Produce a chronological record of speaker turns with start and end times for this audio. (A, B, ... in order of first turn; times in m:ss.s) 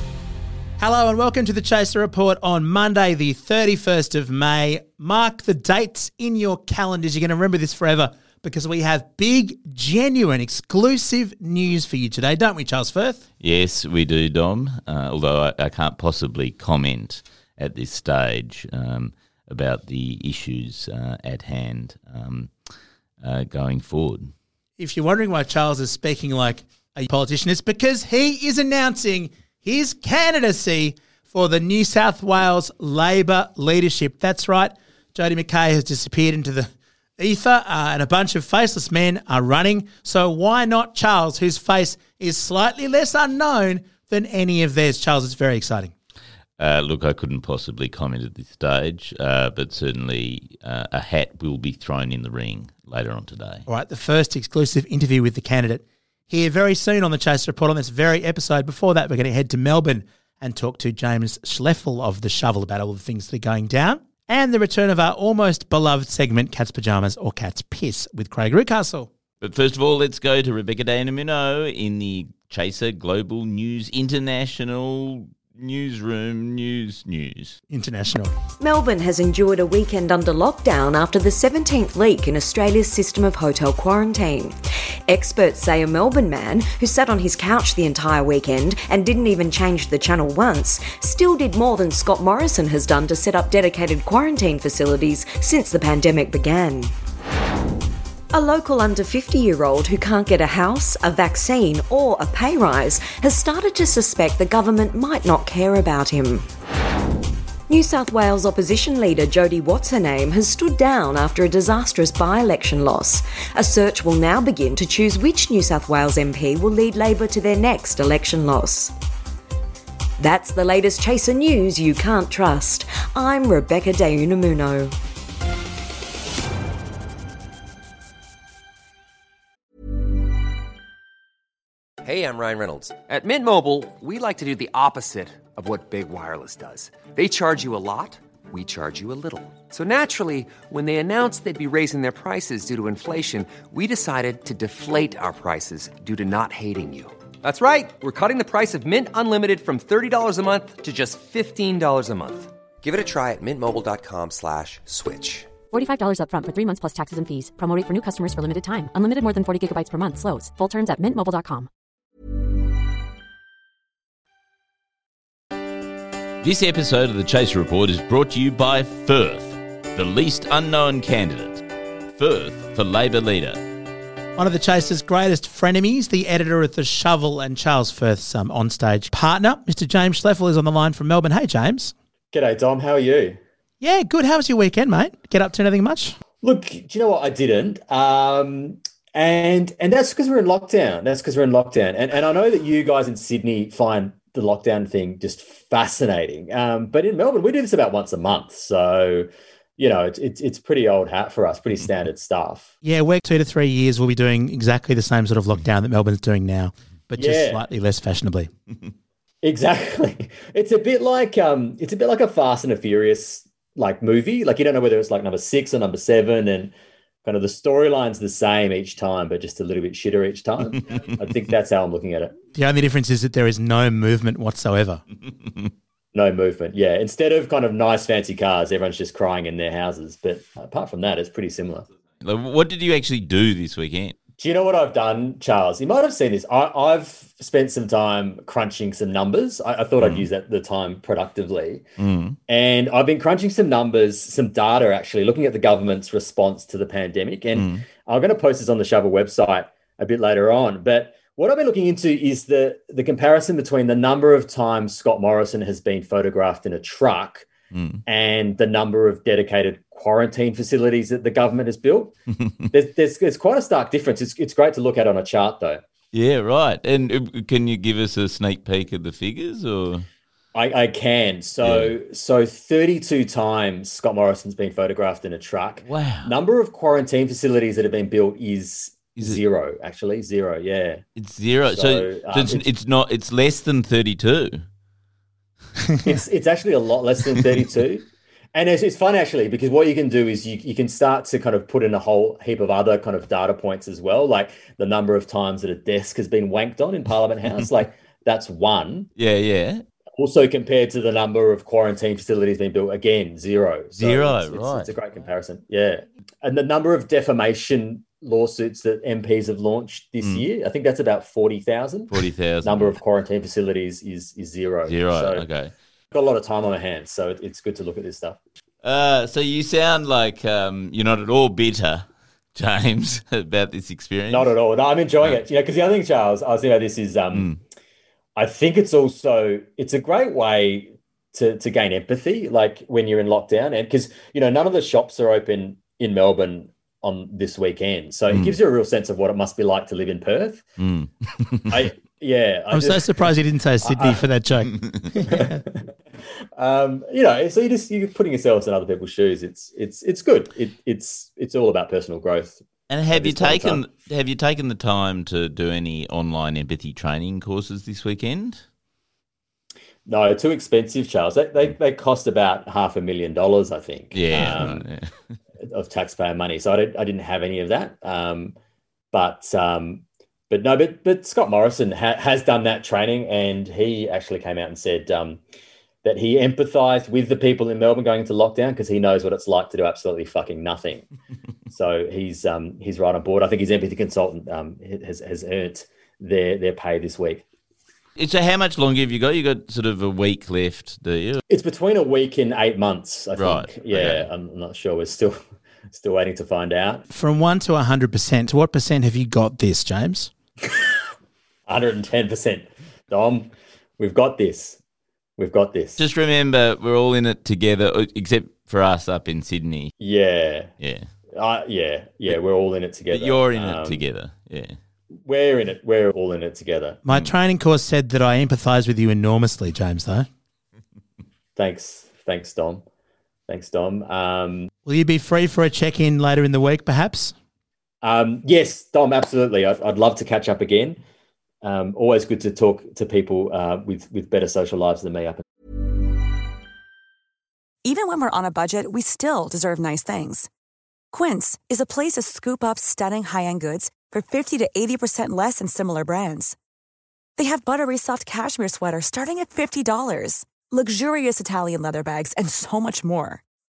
0:00.8-0:13.2 A
0:13.4-0:22.5 B
0:23.2-0:24.3 B
0:24.8-0:45.9 A
0:46.6-0:53.7 B
0:53.7-1:09.1 A
1:09.4-1:17.6 B
1:17.7-1:18.3 A
1:18.6-1:24.6 C
1:25.1-1:36.9 C
1:38.3-1:46.5 C
1:47.7-1:58.9 C
2:00.2-2:04.9 C
2:12.0-2:35.5 D
2:35.7-2:41.7 E
2:46.4-2:51.6 B
2:52.1-2:53.6 B
2:54.4-3:01.9 A
3:02.3-3:03.4 F
3:03.8-3:06.2 A
3:06.4-3:22.7 F
3:22.8-3:28.5 A
3:27.2-3:27.6 F
3:29.4-3:42.4 F
3:42.5-3:45.0 A
3:46.1-3:51.9 F
3:52.2-3:54.2 B
3:54.4-4:01.8 F
4:00.0-4:00.3 B
4:02.0-4:02.4 B
4:02.5-4:17.5 F
4:07.5-4:07.8 B
4:17.7-4:18.0 B
4:18.1-4:22.1 F
4:22.7-4:25.8 F
4:26.1-4:30.1 B
4:30.5-4:41.0 F
4:31.6-4:31.9 B
4:35.9-4:36.3 B
4:41.2-4:44.6 B
4:41.7-4:42.6 F
4:46.0-4:59.1 F
4:59.2-4:59.8 B
5:00.2-5:15.4 F
5:04.0-5:04.9 B
5:12.1-5:13.0 B
5:14.9-5:15.7 B
5:16.1-5:18.4 F
5:18.8-5:24.5 B
5:24.3-5:27.5 F
5:28.4-5:40.6 F
5:38.3-5:38.6 B
5:40.8-5:41.9 B
5:41.7-5:43.1 F
5:42.7-5:45.6 A
5:43.8-5:44.2 F
5:45.2-5:45.9 F
5:46.6-5:53.8 F
5:52.9-5:58.6 B
6:00.1-6:04.8 F
6:04.1-6:05.1 B
6:05.6-6:08.6 F
6:09.1-6:15.4 F
6:16.0-6:21.1 F
6:21.7-6:27.4 F
6:28.2-6:31.4 B
6:31.5-6:35.4 F
6:33.4-6:34.3 B
6:35.9-6:37.0 F
6:37.1-6:40.3 A
6:41.7-6:44.8 F
6:45.4-6:46.0 F
6:46.0-6:49.9 B
6:50.0-6:50.7 F
6:50.8-6:51.1 B
6:51.3-6:54.0 F
6:53.1-6:54.8 B
6:55.2-6:57.0 F
6:57.0-7:00.3 A
7:01.6-7:02.8 F
7:03.5-7:04.7 F
7:04.9-7:07.3 A
7:08.0-7:11.0 F
7:11.6-7:15.4 F
7:17.8-7:20.5 G
7:21.1-7:26.6 G
7:27.4-7:33.4 G